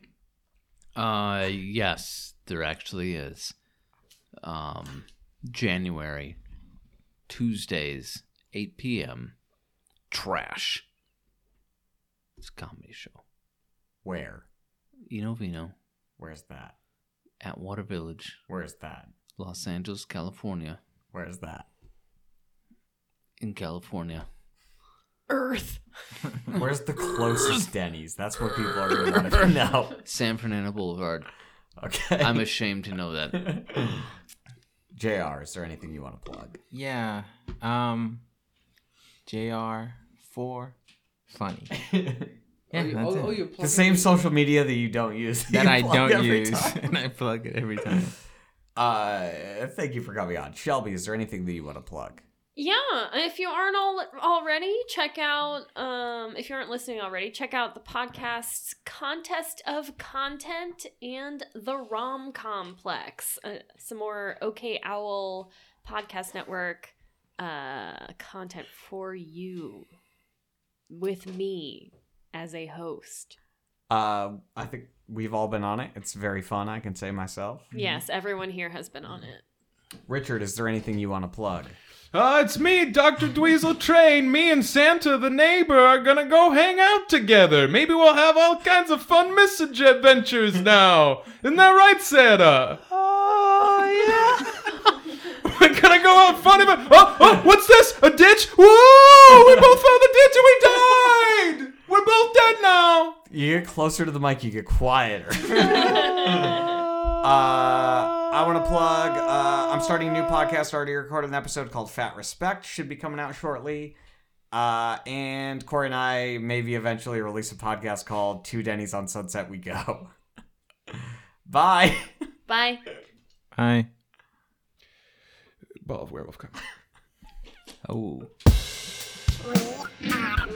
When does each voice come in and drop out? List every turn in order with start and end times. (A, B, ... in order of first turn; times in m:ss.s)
0:00.9-0:03.5 A
0:04.4-0:06.4 A
0:07.3-0:09.4 A
0:10.1-0:10.8 A
0:12.4-0:13.2 A
0:14.0-0:14.4 B
0:15.1-0:15.7 A
0:16.2-0:16.7 B
0:17.4-0:18.4 A
0:18.5-0:19.1 B
0:19.4-0:20.8 A
0:21.1-0:21.7 B
0:23.4-0:24.3 A
0:25.3-0:25.8 C
0:26.5-0:30.0 B
0:30.0-0:31.3 A
0:31.8-0:32.6 B
0:32.2-0:33.5 A
0:33.3-0:34.0 B
0:34.9-0:36.6 B
0:36.7-0:38.2 D
0:39.2-0:40.7 D
0:41.3-0:41.7 D
0:41.7-0:42.3 B
0:42.7-0:43.5 D
0:42.7-0:44.1 A
0:43.6-0:46.9 B
0:45.5-0:48.1 D
0:48.8-0:52.2 B
0:52.5-1:09.9 C
1:10.9-1:13.4 C
1:13.9-1:17.7 B
1:17.7-1:19.4 C
1:20.1-1:21.8 B
1:22.1-1:32.8 E
1:32.9-1:34.3 A
1:33.9-1:34.7 E
1:35.4-1:43.2 E
1:43.3-1:46.7 B
1:45.7-1:46.8 C
1:47.2-1:54.0 B
1:54.5-2:00.1 B
2:00.9-2:02.1 B
2:02.5-2:02.8 C
2:03.5-2:03.9 D
2:05.8-2:06.6 E
2:07.8-2:08.3 A